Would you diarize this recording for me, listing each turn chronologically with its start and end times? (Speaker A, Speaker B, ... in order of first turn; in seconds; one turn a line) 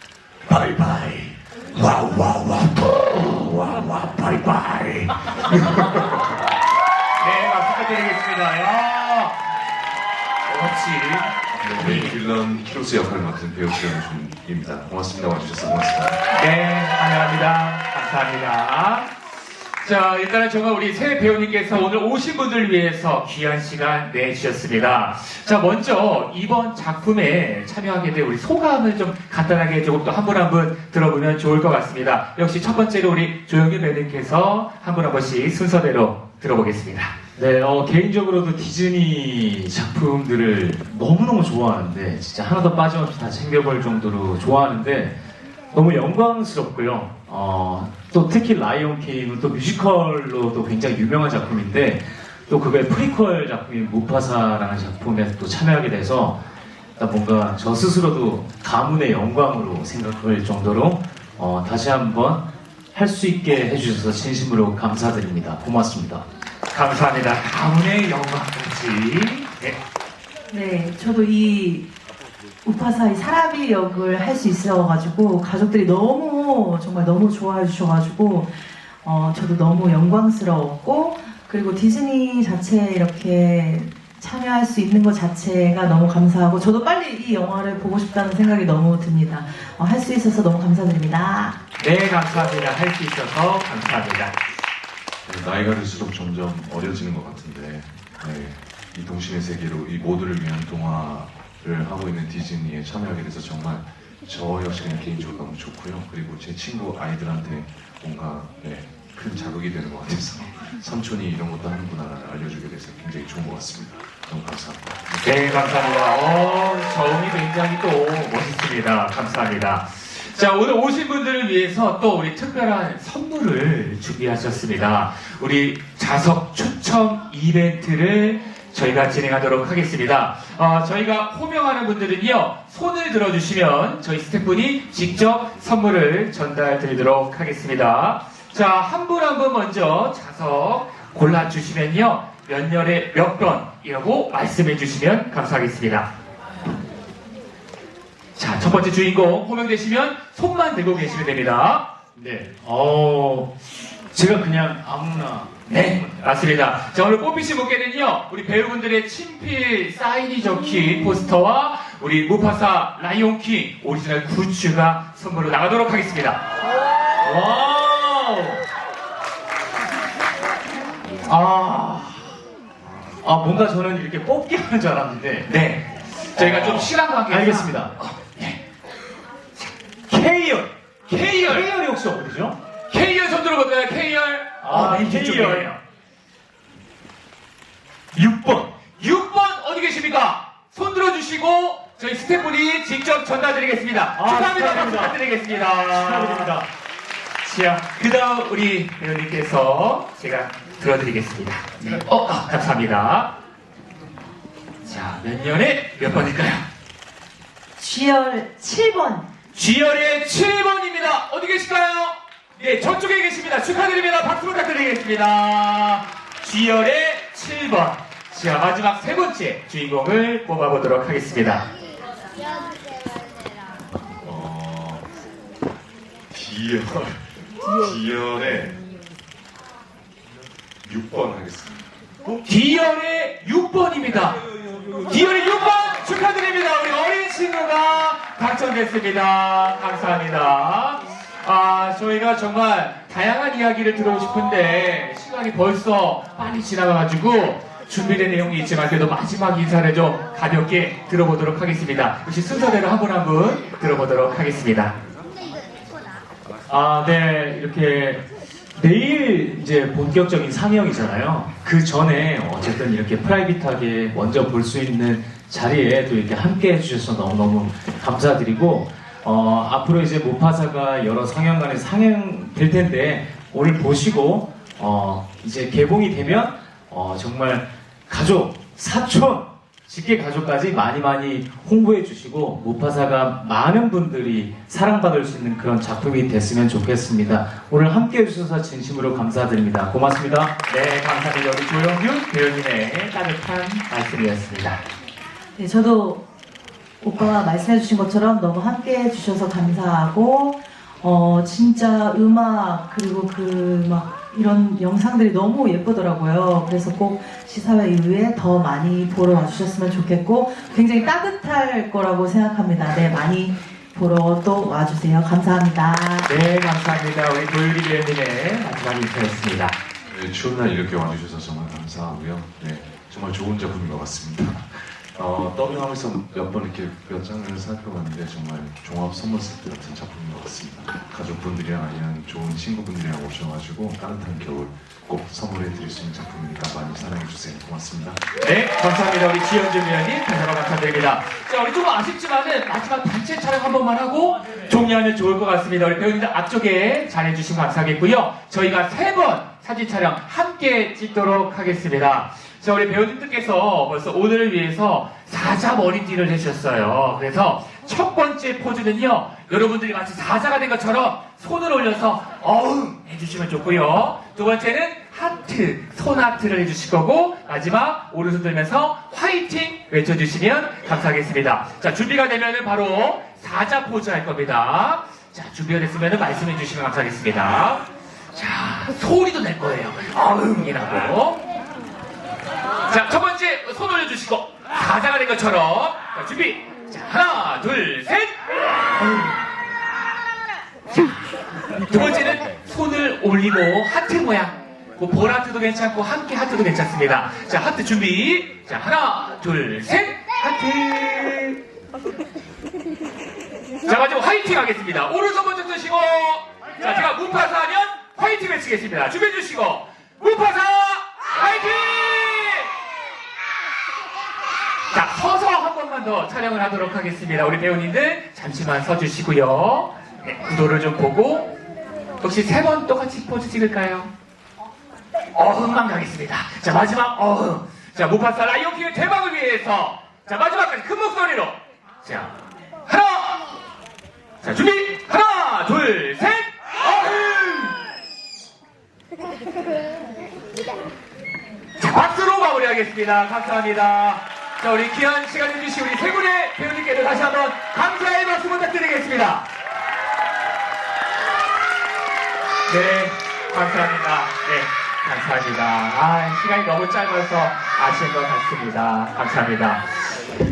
Speaker A: 0.5-5.9
Speaker A: 7.2-9.4
Speaker A: 10.5-12.2
Speaker B: 11.6-16.2
Speaker A: 16.3-19.1
Speaker A: 19.8-37.1
Speaker C: 37.4-45.1
Speaker C: 45.7-56.4
Speaker C: 57.0-66.2
Speaker A: 66.7-69.8
Speaker D: 70.5-71.8
Speaker D: 72.6-91.6
Speaker A: 91.8-94.3
Speaker B: 95.2-115.2
Speaker A: 115.2-146.1
Speaker A: 148.3-151.8
Speaker C: 152.2-153.5
Speaker C: 154.1-156.1
Speaker A: 155.7-166.4
Speaker C: 167.2-168.6
Speaker C: 171.2-172.2
Speaker C: 173.2-175.5
Speaker A: 175.5-178.6
Speaker C: 176.3-177.9
Speaker C: 180.1-182.5
Speaker A: 181.1-181.7
Speaker A: 182.9-185.8
Speaker C: 184.6-185.7
Speaker C: 188.1-188.7
Speaker A: 189.0-196.5
Speaker C: 194.1-195.2
Speaker C: 195.9-196.6
Speaker A: 197.4-203.3
Speaker A: 204.8-206.6
Speaker D: 207.8-209.3
Speaker A: 209.5-221.6
Speaker B: 224.2-225.0
Speaker B: 226.3-228.7
Speaker B: 230.8-231.8
Speaker A: 232.4-234.4
Speaker A: 235.0-254.9
Speaker C: 256.7-258.2
Speaker C: 258.8-290.5
Speaker A: 290.7-294.8
Speaker D: 295.6-296.2
Speaker D: 297.0-316.3
Speaker A: 316.2-319.8
Speaker B: 320.1-338.2
Speaker A: 338.4-381.4
Speaker A: 382.9-388.4
Speaker A: 388.9-389.3
Speaker A: 390.9-401.6
Speaker A: 403.8-412.7
Speaker A: 414.9-421.5
Speaker A: 422.2-424.1
Speaker A: 425.3-432.3
Speaker A: 432.9-433.5
Speaker A: 434.4-437.7
Speaker A: 441.8-449.5
Speaker A: 452.7-460.0